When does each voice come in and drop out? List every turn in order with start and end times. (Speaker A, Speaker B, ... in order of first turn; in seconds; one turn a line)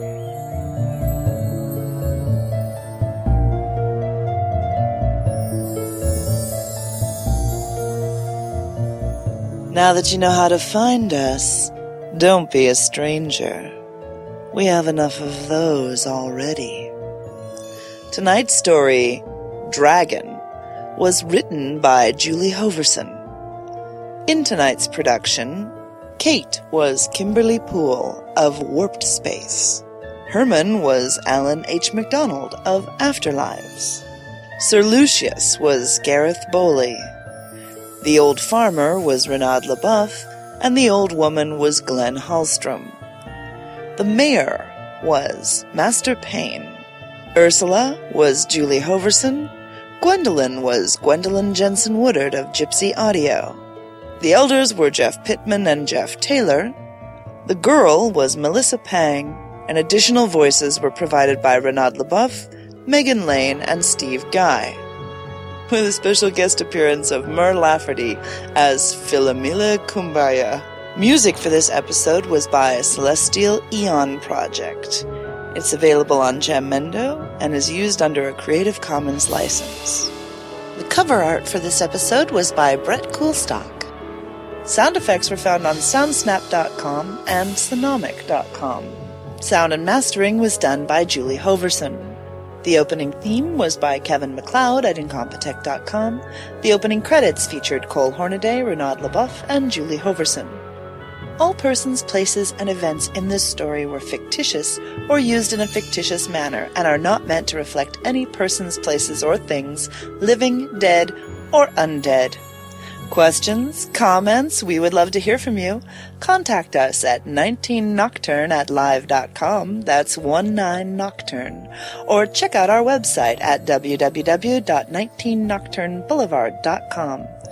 Speaker A: 9.7-13.7
Speaker A: 14.5-16.9
Speaker A: 18.1-20.4
Speaker A: 21.0-23.2
Speaker A: 24.3-34.0
Speaker A: 34.6-37.1
Speaker A: 38.0-43.0
Speaker A: 44.0-46.8
Speaker A: 47.4-53.6
Speaker A: 54.2-56.8
Speaker A: 57.5-64.8
Speaker A: 65.7-80.1
Speaker A: 80.8-83.9
Speaker A: 84.7-100.6
Speaker A: 101.4-112.4
Speaker A: 113.1-127.3